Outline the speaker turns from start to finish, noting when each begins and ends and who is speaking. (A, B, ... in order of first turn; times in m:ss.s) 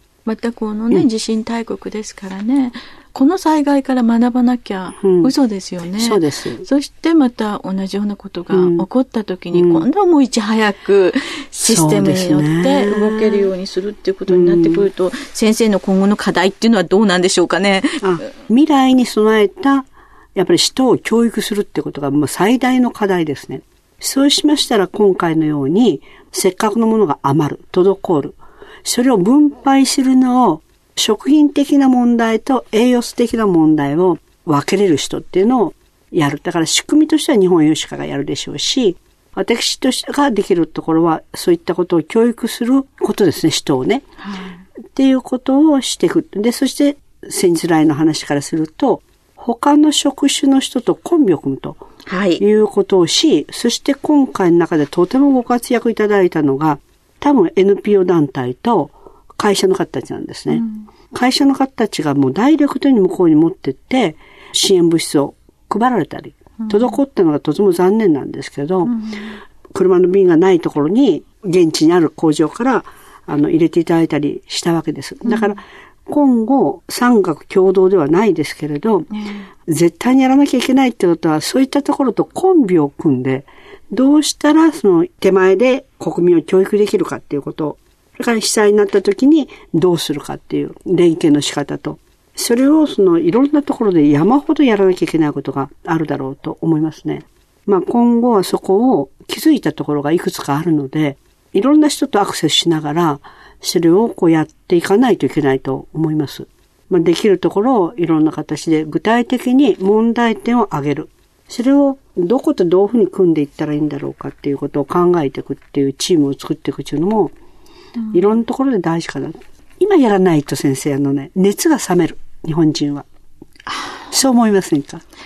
0:00.2-0:18.1 A
0:05.0-0:05.3 B
0:05.9-0:06.6 B
0:08.5-0:08.9 B
0:09.5-0:09.9 B
0:11.6-0:13.5 B
0:14.3-0:14.9 B
0:18.0-0:44.0 B
0:44.2-0:44.6 A
0:44.9-0:51.8 B
0:52.1-0:52.4 A
0:52.4-1:08.9 B
1:00.5-1:00.8 A
1:06.6-1:07.0 A
1:08.8-1:09.4 A
1:09.7-1:19.1 B
1:15.2-1:15.5 A
1:19.1-1:19.5 A
1:19.6-1:57.3 B
1:58.1-2:03.0 B
2:04.1-2:05.0 B